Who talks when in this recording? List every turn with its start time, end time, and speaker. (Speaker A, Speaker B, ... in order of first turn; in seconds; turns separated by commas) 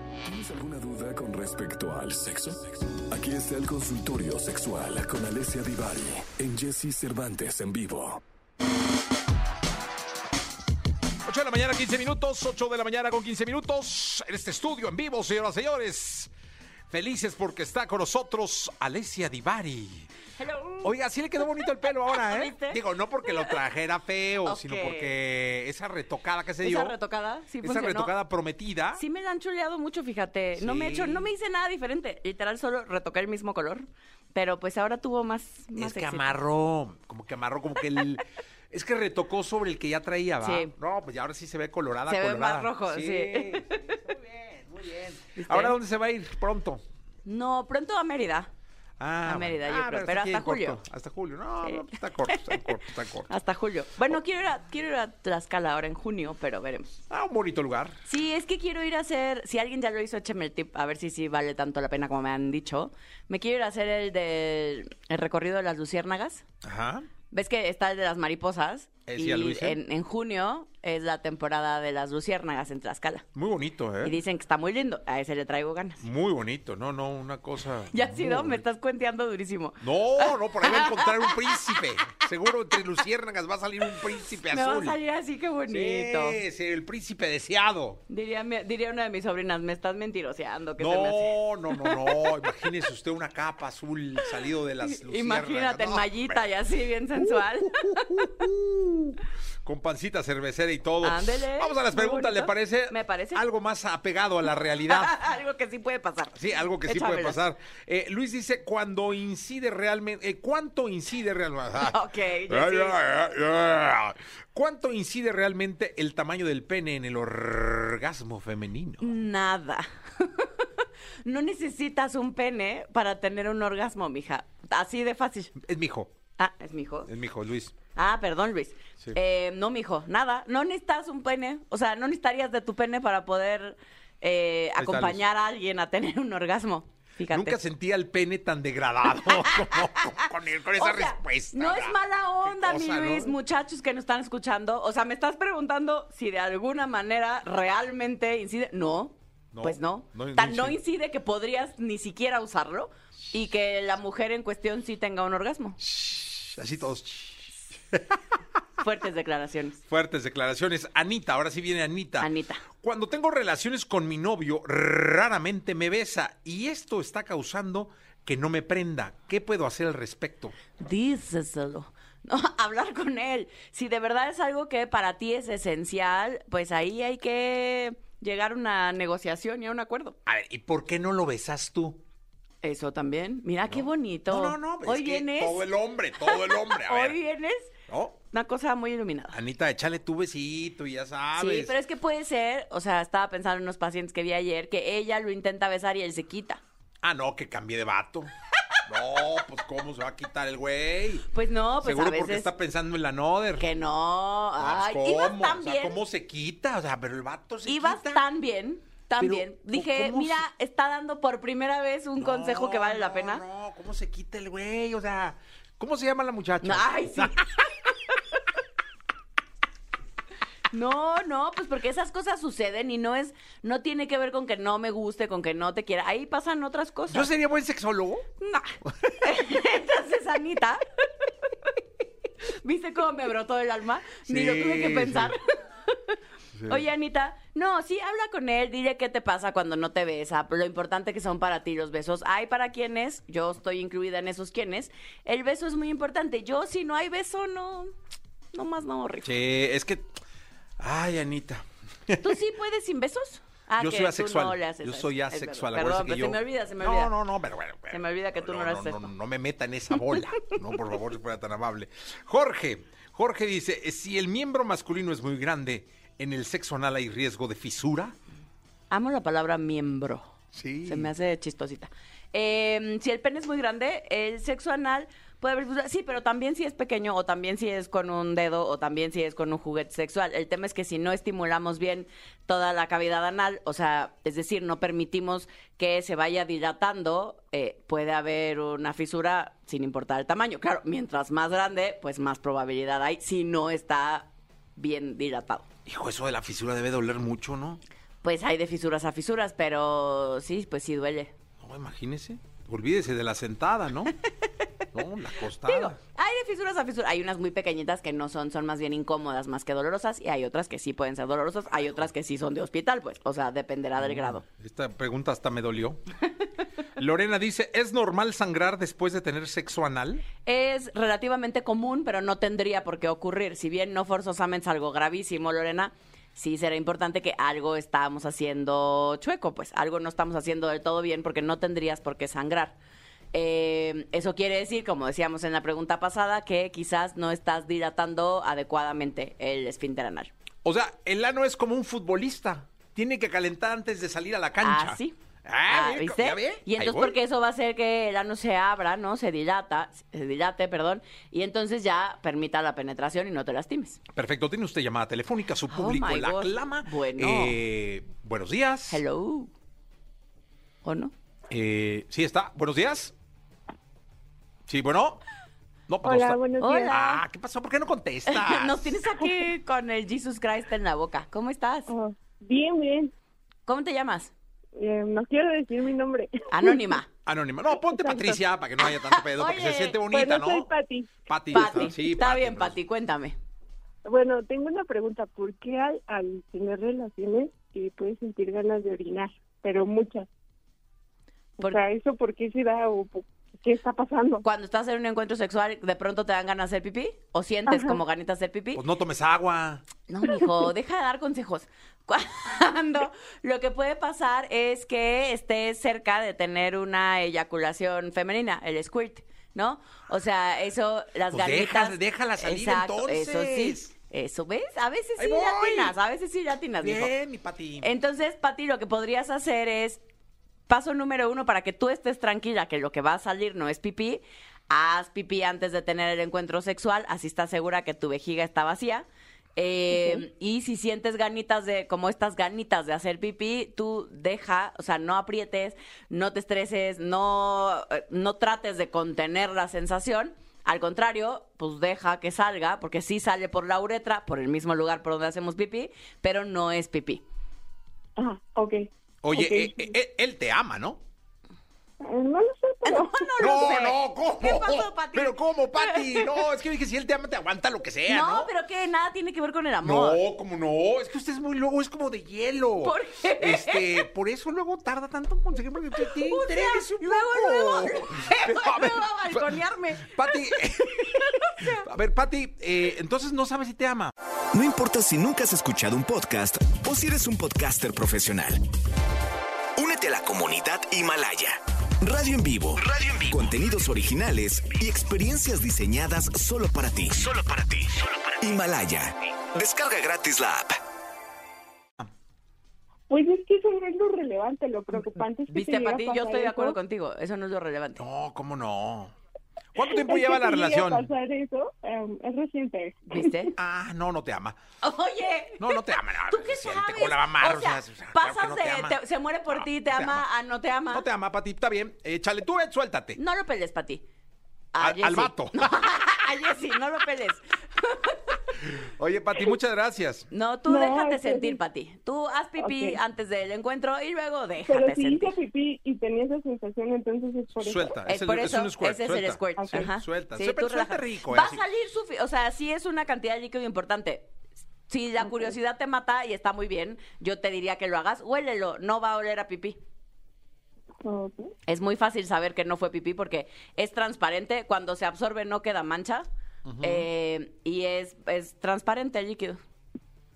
Speaker A: 0.2-8.2, Speaker B: 11.2-16.3, Speaker B: 16.9-20.1, Speaker C: 20.4-23.6, Speaker B: 20.8-27.0, Speaker C: 24.4-25.1, Speaker C: 26.6-28.1, Speaker B: 27.6-29.0, Speaker C: 28.9-36.3, Speaker B: 30.5-31.3, Speaker B: 35.7-46.8, Speaker C: 40.4-40.7, Speaker C: 42.1-44.0, Speaker C: 45.4-45.8, Speaker C: 47.2-48.5, Speaker B: 49.0-53.3, Speaker C: 49.2-50.8, Speaker C: 51.6-52.7, Speaker C: 53.3-57.0, Speaker B: 57.1-58.0, Speaker C: 58.0-66.4, Speaker B: 66.6-67.1, Speaker C: 67.3-73.2, Speaker B: 69.0-69.8, Speaker B: 73.3-74.2, Speaker C: 74.0-76.0, Speaker B: 76.0-78.6, Speaker C: 77.9-81.8, Speaker B: 79.8-85.0, Speaker C: 84.4-86.4, Speaker B: 85.7-88.0, Speaker C: 88.1-92.7, Speaker B: 90.8-96.5, Speaker C: 94.8-98.4, Speaker B: 97.2-105.2, Speaker C: 101.0-103.4, Speaker C: 104.8-107.4, Speaker B: 106.3-119.2, Speaker C: 111.8-113.0, Speaker C: 119.0-125.5, Speaker B: 125.5-126.1, Speaker C: 126.4-127.1, Speaker B: 127.1-127.7, Speaker C: 127.9-137.6, Speaker B: 134.8-135.2, Speaker B: 137.3-143.3, Speaker C: 139.1-155.8, Speaker B: 149.5-150.8, Speaker B: 155.8-158.2, Speaker C: 158.8-159.8, Speaker B: 159.9-162.3, Speaker C: 162.2-162.6, Speaker B: 162.8-170.5, Speaker C: 170.8-180.2, Speaker B: 180.2-182.0, Speaker C: 182.6-185.7, Speaker B: 183.7-187.2, Speaker C: 186.2-187.7, Speaker B: 187.9-188.2, Speaker C: 188.3-189.4, Speaker B: 189.3-191.8, Speaker C: 191.3-196.6, Speaker B: 197.0-198.3, Speaker B: 198.9-201.2, Speaker C: 201.3-202.5, Speaker B: 201.8-203.7, Speaker C: 203.6-206.0, Speaker B: 204.6-208.2, Speaker C: 207.6-213.4, Speaker B: 209.2-210.4, Speaker B: 212.2-217.4, Speaker C: 216.6-218.4, Speaker C: 220.7-227.3, Speaker B: 227.1-228.2, Speaker C: 228.4-230.8, Speaker B: 228.8-229.3, Speaker C: 232.6-235.5, Speaker B: 234.3-235.3, Speaker B: 236.5-236.8, Speaker C: 236.7-247.9, Speaker C: 248.5-249.3, Speaker B: 249.2-250.1, Speaker B: 250.8-252.3, Speaker C: 252.2-257.1, Speaker B: 253.8-268.1, Speaker C: 257.9-259.1, Speaker C: 268.9-295.6, Speaker B: 270.5-271.1, Speaker B: 295.9-297.8, Speaker C: 298.2-301.3, Speaker B: 301.6-304.1, Speaker B: 304.9-306.0, Speaker C: 305.6-314.4, Speaker B: 314.0-316.0, Speaker B: 317.0-320.2, Speaker C: 320.4-332.8, Speaker C: 333.3-340.3, Speaker B: 340.6-347.2, Speaker C: 344.6-354.0, Speaker B: 354.1-359.0, Speaker C: 355.7-357.6, Speaker C: 358.9-359.5, Speaker C: 360.8-361.1, Speaker B: 361.5-363.1, Speaker B: 364.7-365.2, Speaker B: 365.9-369.1, Speaker D: 366.0-367.0, Speaker C: 366.6-367.2, Speaker C: 368.2-371.9, Speaker D: 371.9-373.1, Speaker C: 373.6-374.3, Speaker D: 374.8-376.9, Speaker C: 376.5-377.1, Speaker B: 377.2-380.7, Speaker D: 377.8-378.4, Speaker C: 378.9-380.0, Speaker D: 380.1-381.1, Speaker B: 381.2-382.8, Speaker C: 381.5-383.4, Speaker D: 384.1-390.3, Speaker D: 391.6-394.4, Speaker C: 394.4-398.8, Speaker D: 397.7-398.0, Speaker B: 398.7-399.8, Speaker C: 400.1-417.1, Speaker B: 411.3-413.9, Speaker B: 415.2-415.9, Speaker B: 416.8-417.9, Speaker C: 417.8-420.0, Speaker C: 420.7-447.2, Speaker D: 429.9-430.2, Speaker D: 448.2-448.8, Speaker B: 449.2-451.0, Speaker D: 449.3-449.8, Speaker D: 452.0-453.2, Speaker C: 452.8-456.4, Speaker B: 453.4-458.5, Speaker C: 458.1-460.2, Speaker B: 459.8-474.1, Speaker C: 462.8-464.1, Speaker C: 466.0-471.8, Speaker E: 474.5-478.6, Speaker E: 479.8-490.7, Speaker D: 493.1-496.8, Speaker C: 495.5-498.0, Speaker B: 498.0-499.1, Speaker B: 499.7-501.1, Speaker D: 499.8-503.5, Speaker C: 503.1-503.5, Speaker B: 503.6-504.6, Speaker C: 504.8-511.1, Speaker B: 505.6-510.3, Speaker B: 510.9-513.2, Speaker C: 513.2-514.0, Speaker C: 514.7-518.4, Speaker B: 514.8-515.7, Speaker B: 518.7-520.3, Speaker C: 520.3-525.3, Speaker D: 520.7-521.6, Speaker D: 522.6-523.0, Speaker D: 524.6-527.9, Speaker B: 527.6-531.6, Speaker C: 528.0-534.3, Speaker D: 529.6-529.9, Speaker C: 534.9-539.8, Speaker D: 541.0-541.5, Speaker C: 541.7-546.3, Speaker B: 546.6-547.1, Speaker C: 546.8-549.6